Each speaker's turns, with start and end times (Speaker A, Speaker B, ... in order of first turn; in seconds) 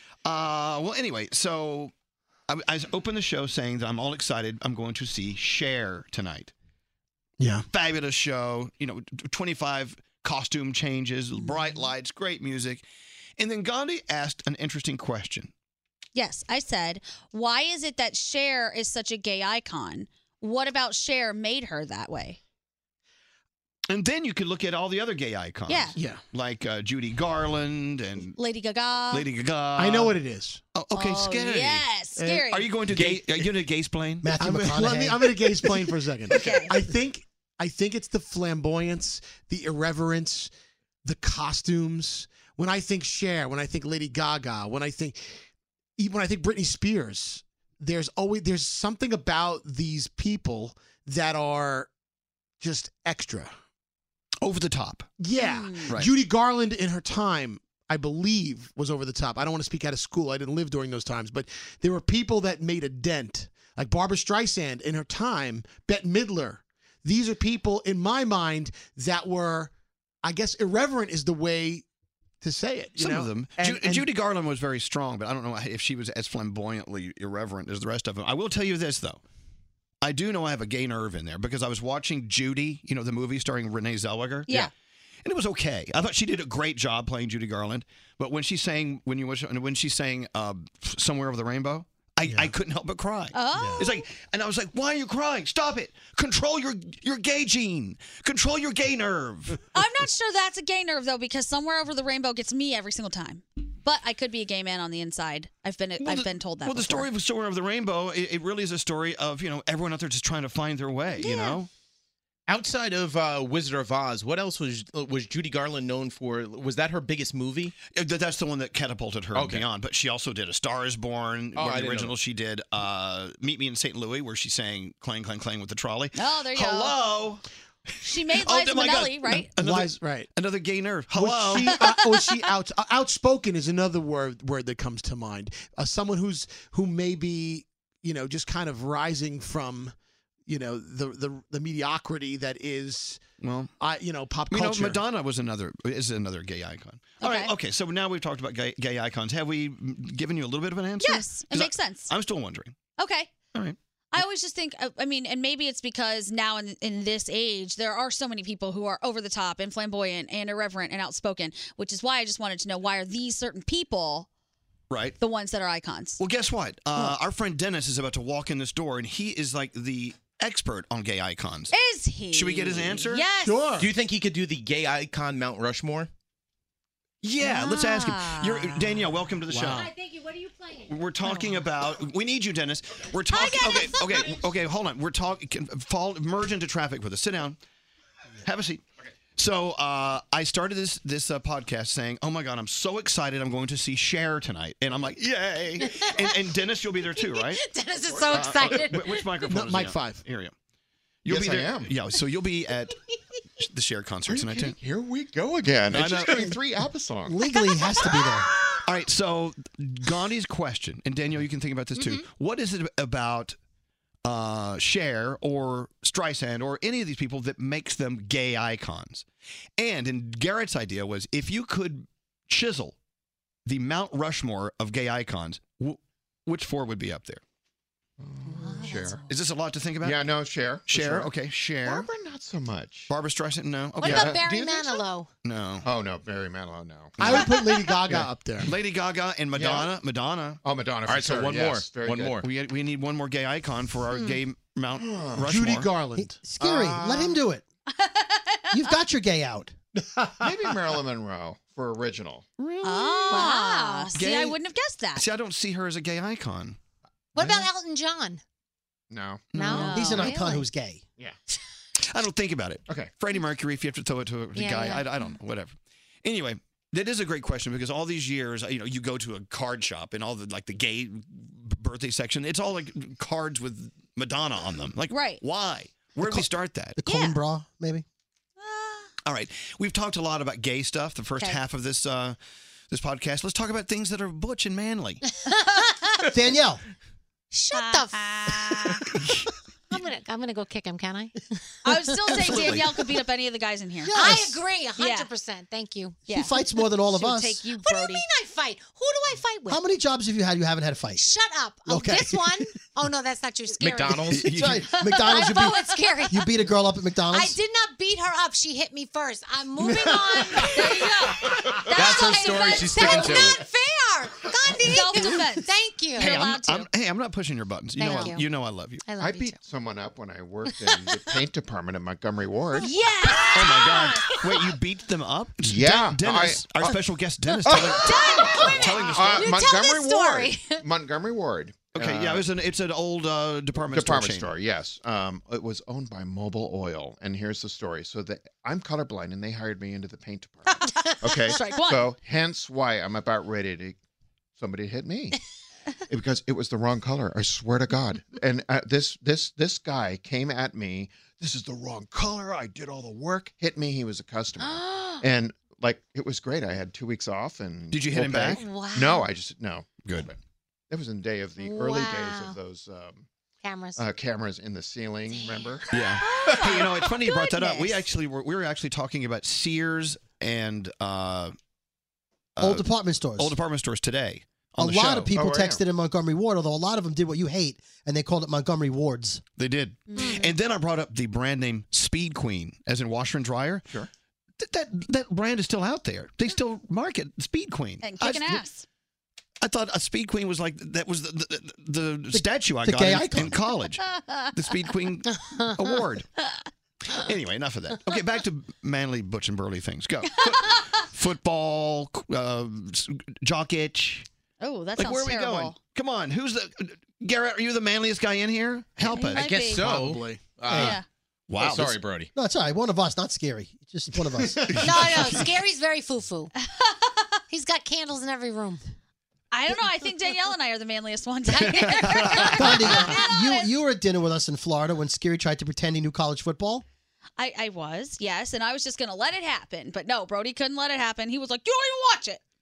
Speaker A: 0.2-1.9, 2.5-6.5, 7.7-12.9, 13.4-15.5, 23.9-28.4, 29.1-30.2, 30.7-31.9, 32.5-34.4, 54.4-55.1, 73.0-79.2, 80.0-84.7, 85.2-99.6, 106.0-111.7, 117.9-127.4, 128.4-131.8, 143.4-143.7, 144.5-152.8, 164.9-165.2, 166.2-171.8, 172.3-173.3, 177.2-179.9, 180.8-187.6, 188.4-188.8, 189.4-197.7, 198.3-200.5, 201.2-203.0, 203.6-204.8, 205.9-206.5, 208.8-213.6, 214.2-219.3, 219.8-223.0, 223.7-227.4, 229.2-230.3, 230.9-232.1, 233.1-234.4, 235.4-235.9, 238.6-240.6, 242.4-245.9, 254.1-254.6, 255.1-256.8, 259.5-260.4, 262.0-277.0, 279.3-282.4, 282.9-285.2, 292.5-292.8, 304.3-305.0, 316.2-319.2, 323.5-329.6, 331.9-334.5, 357.9-358.6, 360.1-360.3, 365.9-371.5, 372.6-375.3, 379.6-383.9, 384.6-388.6, 389.6-396.3, 397.1-404.3, 405.0-409.6, 411.5-412.0, 414.7-415.5, 421.6-422.5
Speaker B: 7.4-7.7, 26.0-26.2, 29.8-30.6, 32.1-32.5, 34.4-40.5, 41.0-45.4, 46.0-51.9, 52.6-53.5, 55.2-69.7, 70.2-71.8, 72.4-74.1, 92.2-92.5, 93.5-93.9, 129.3-130.3, 131.1-139.9, 140.5-143.2, 143.8-145.1, 173.4-173.9, 179.5-179.9, 199.4-200.3, 237.2-238.7, 245.4-246.4, 250.0-251.0, 409.0-410.6, 414.5-414.9, 422.6-422.9
Speaker C: 11.4-11.8, 16.1-22.4, 25.7-26.0, 28.4-29.3, 30.9-32.6, 36.3-36.7, 55.4-55.9, 93.3-94.1, 99.7-107.1, 111.2-111.6, 126.2-127.0, 128.0-129.5, 147.2-147.6, 151.0-152.1, 153.0-153.3, 154.1-164.3, 165.2-166.2, 171.7-173.8, 177.4-179.1, 183.3-183.8, 248.0-248.9, 252.8-255.3, 259.8-260.2, 275.1-275.4, 277.0-277.4, 278.6-279.1, 287.7-289.0, 291.8-294.2, 295.0-295.3, 296.3-298.3, 305.4-305.8, 310.7-313.6, 314.9-316.9, 341.5-342.1, 366.2-368.1, 380.1-380.5, 388.0-388.9, 404.6-405.8, 409.1-409.9, 410.7-411.1, 419.5-423.8, 427.4-432.4
Speaker D: 32.9-33.3, 112.5-117.8, 119.3-119.7, 121.5-122.2, 173.8-176.1, 241.1-242.5, 303.7-304.7, 311.9-313.6, 409.4-412.3
Speaker E: 34.2-35.3, 207.3-208.5, 246.2-247.6, 248.7-249.8, 259.9-261.0, 276.2-278.1, 286.3-286.8, 294.0-294.6, 296.3-297.6, 299.7-301.3, 301.9-302.6, 304.6-307.6, 372.6-373.6, 374.8-379.4, 392.3-393.6, 410.7-411.0, 412.4-414.6, 422.5-426.9
Speaker F: 179.7-180.9, 183.5-184.1, 195.8-199.4, 207.5-208.4, 228.5-229.1, 234.0-235.3, 253.3-254.1, 257.4-258.4, 259.6-260.7, 264.5-265.1, 285.5-286.2, 287.5-289.0, 289.9-292.7, 294.1-296.2, 297.8-299.8, 301.1-306.6, 307.3-311.4, 311.9-316.3, 318.0-318.5, 319.0-319.6, 320.6-321.4, 322.8-324.6, 327.9-330.9, 340.9-341.5, 354.6-355.2, 358.5-359.3, 361.6-362.6, 363.6-364.0, 365.2-365.8, 414.8-416.5, 417.5-418.8
Speaker G: 198.0-198.9, 201.3-202.0, 204.3-208.3, 228.2-229.2, 230.0-233.1, 234.0-235.0, 235.8-237.5, 238.1-238.3, 239.5-239.9, 240.6-242.4, 245.0-245.5, 246.6-247.5, 250.4-253.3, 259.1-259.9, 262.9-263.1, 319.2-322.9, 325.6-327.1, 327.6-332.5, 333.8-340.7, 341.2-344.0, 344.6-345.4, 346.1-360.4, 360.9-363.3, 364.0-366.9, 375.1-375.8